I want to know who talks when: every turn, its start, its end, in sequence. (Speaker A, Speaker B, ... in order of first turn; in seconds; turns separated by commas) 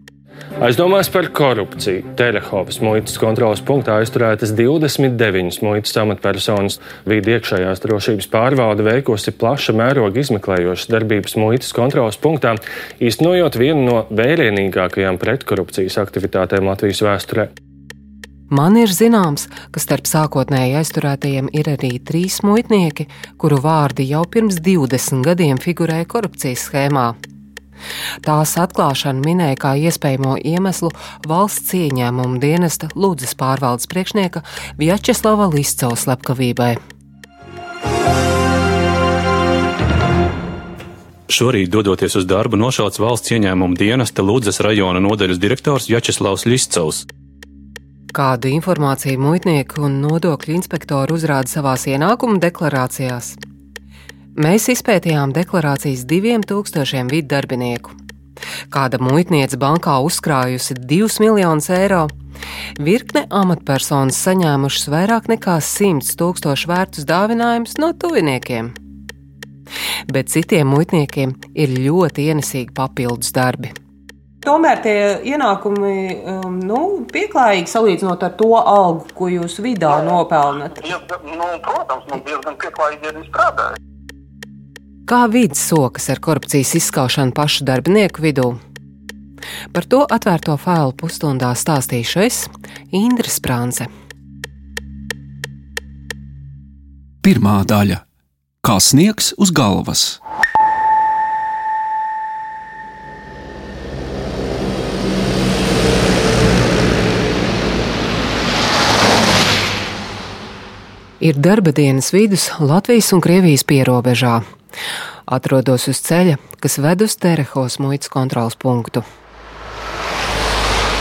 Speaker A: 0.6-17.5, Speaker B: 18.5-27.2, Speaker B: 28.2-36.8, Speaker C: 41.3-47.1, Speaker B: 48.1-53.4, Speaker B: 54.4-57.9, Speaker B: 58.7-62.1, Speaker B: 62.8-68.8, Speaker B: 70.1-73.7, Speaker D: 74.4-80.8, Speaker E: 79.9-83.7, Speaker B: 85.1-88.6, Speaker B: 89.7-93.9, Speaker F: 97.2-98.0, Speaker F: 98.6-100.2, Speaker B: 111.2-114.5, Speaker B: 115.3-119.0